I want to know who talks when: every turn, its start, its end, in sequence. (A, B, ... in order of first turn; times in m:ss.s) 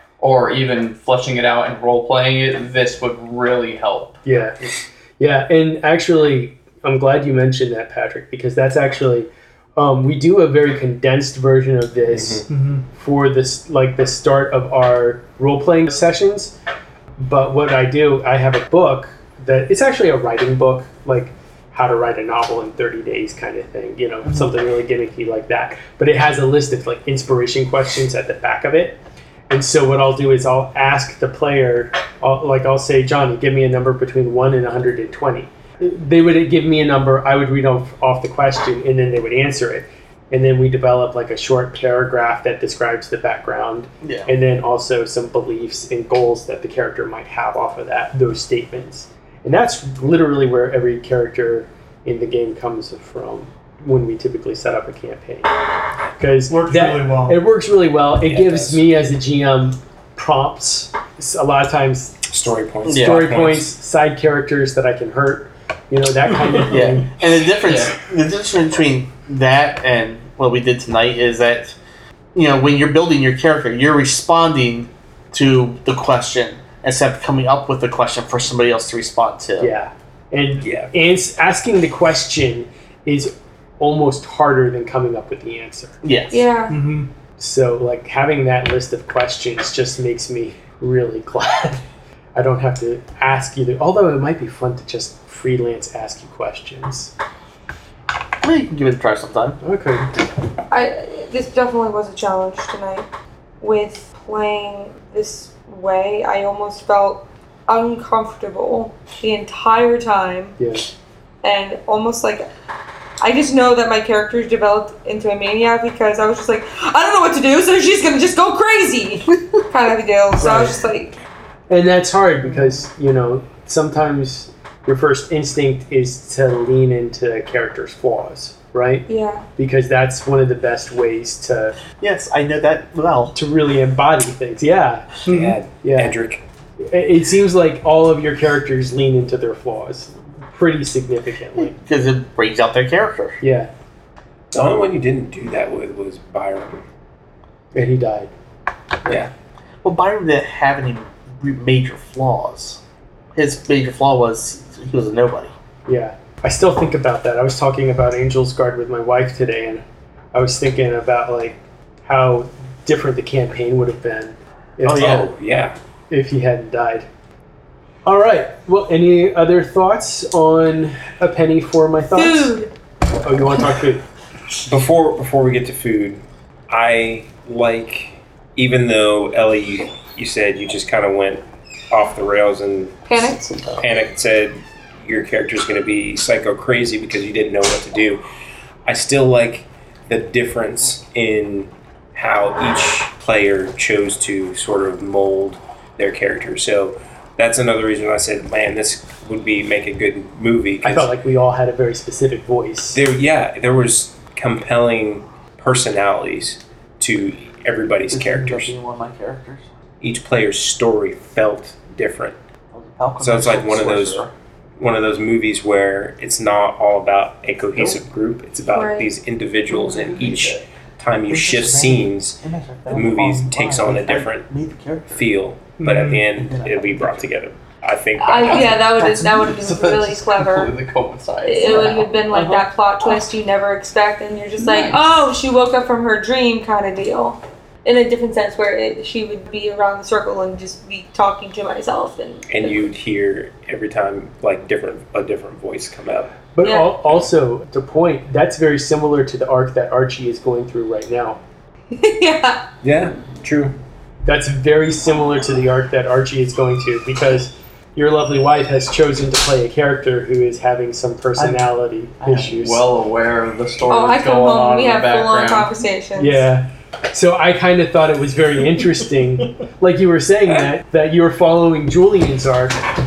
0:00.2-0:04.2 A
0:04.2-0:16.5 B
0:12.1-0:12.4 C
0:12.5-0:12.8 D
0:17.2-0:29.0 B
0:29.5-0:55.5 B
0:44.0-0:44.3 E
0:56.2-1:02.2 B
0:56.5-0:57.4 D
0:58.2-0:58.8 C
1:02.3-1:03.7 C
1:02.8-1:03.2 E
1:02.8-1:07.2 B
1:06.7-1:11.8 E
1:07.6-1:08.0 A
1:12.3-1:19.7 E
1:19.6-1:25.9 B
1:20.6-1:20.9 C
1:26.0-1:26.4 E
1:26.3-1:26.8 F
1:26.7-1:27.1 D
1:27.4-1:31.8 B
1:32.3-1:37.1 B
1:38.4-1:39.6 E
1:39.6-1:40.1 B
1:40.7-1:43.1 F
1:43.6-1:50.6 F
1:50.6-1:50.8 B
1:51.4-1:52.5 F
1:53.2-2:01.2 F
2:00.4-2:00.8 B
2:01.7-2:09.0 B
2:09.1-2:09.4 F
2:09.6-2:11.8 B
2:12.0-2:13.3 E
2:13.3-2:15.1 B
2:15.2-2:16.4 C
2:15.3-2:15.6 D
2:15.8-2:16.1 B
2:16.8-2:21.8 B
2:21.7-2:23.4 E
2:23.4-2:23.7 B
2:24.5-2:26.8 C
2:27.7-2:28.3 B
2:29.8-2:32.8 E
2:33.3-2:35.5 E
2:35.9-2:45.3 B
2:44.8-2:45.3 E
2:44.9-2:45.8 C
2:46.1-2:47.1 B
2:48.0-2:52.6 B
2:52.1-2:52.7 F
2:53.2-2:54.0 B
2:54.7-3:03.0 C
3:03.1-3:03.6 F
3:03.6-3:03.8 E
3:03.8-3:08.2 C
3:08.8-3:21.1 C
3:20.8-3:23.0 B
3:22.9-3:28.7 C
3:28.1-3:29.7 E
3:30.0-3:32.4 C
3:32.7-3:34.3 E
3:33.2-3:34.2 C
3:34.8-3:44.5 C
3:38.7-3:39.1 F
3:39.7-3:40.6 E
3:41.3-3:45.3 E
3:45.1-3:48.8 C
3:45.8-3:46.3 D
3:46.4-3:47.3 E
3:48.2-3:50.7 F
3:48.4-3:52.6 A
3:51.4-4:02.9 F
3:54.6-3:55.0 A
4:02.5-4:06.3 C
4:06.5-4:11.4 B
4:06.6-4:06.9 F
4:11.9-4:12.7 F
4:12.8-4:13.8 C
4:14.2-4:22.8 B
4:21.4-4:25.7 A
4:23.9-4:26.4 F
4:26.2-4:32.8 B